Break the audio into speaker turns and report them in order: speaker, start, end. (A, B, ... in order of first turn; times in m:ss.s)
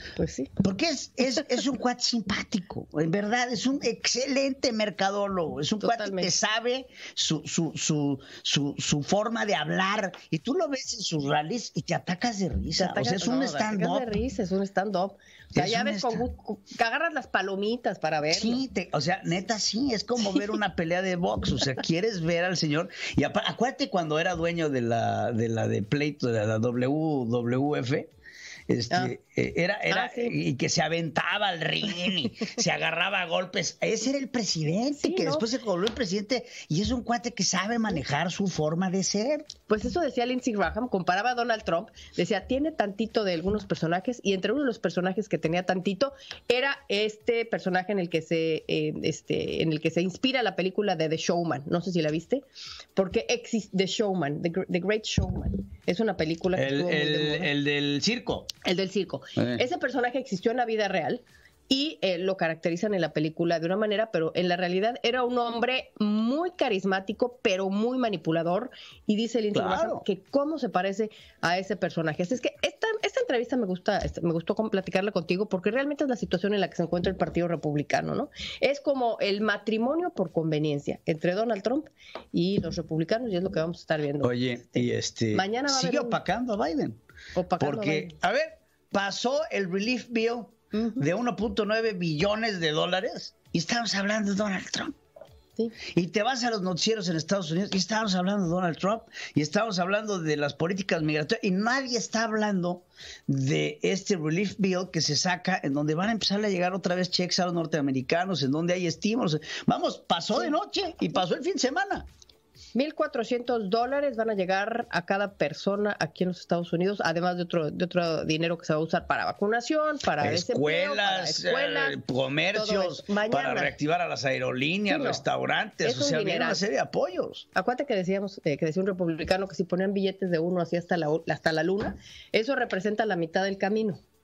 0:00.2-0:00.5 A
0:00.6-0:14.0 B
0:05.8-0:06.3 A
0:12.8-0:18.6 A
0:15.5-0:16.2 B
0:18.3-0:28.1 B
0:28.7-0:39.5 B
0:29.9-0:30.4 A
0:34.9-0:35.5 A
0:39.7-0:57.5 A
0:56.5-0:58.6 B
0:58.6-1:26.2 A
0:59.4-0:59.6 B
1:09.5-1:10.0 B
1:24.2-1:27.0 B
1:27.3-1:28.1 A
1:27.6-1:35.0 B
1:30.7-1:31.0 A
1:35.9-1:52.0 B
1:52.7-2:02.0 A
2:00.2-2:07.4 B
2:02.5-2:03.7 A
2:04.9-2:05.2 A
2:05.8-2:06.6 A
2:07.5-2:14.0 A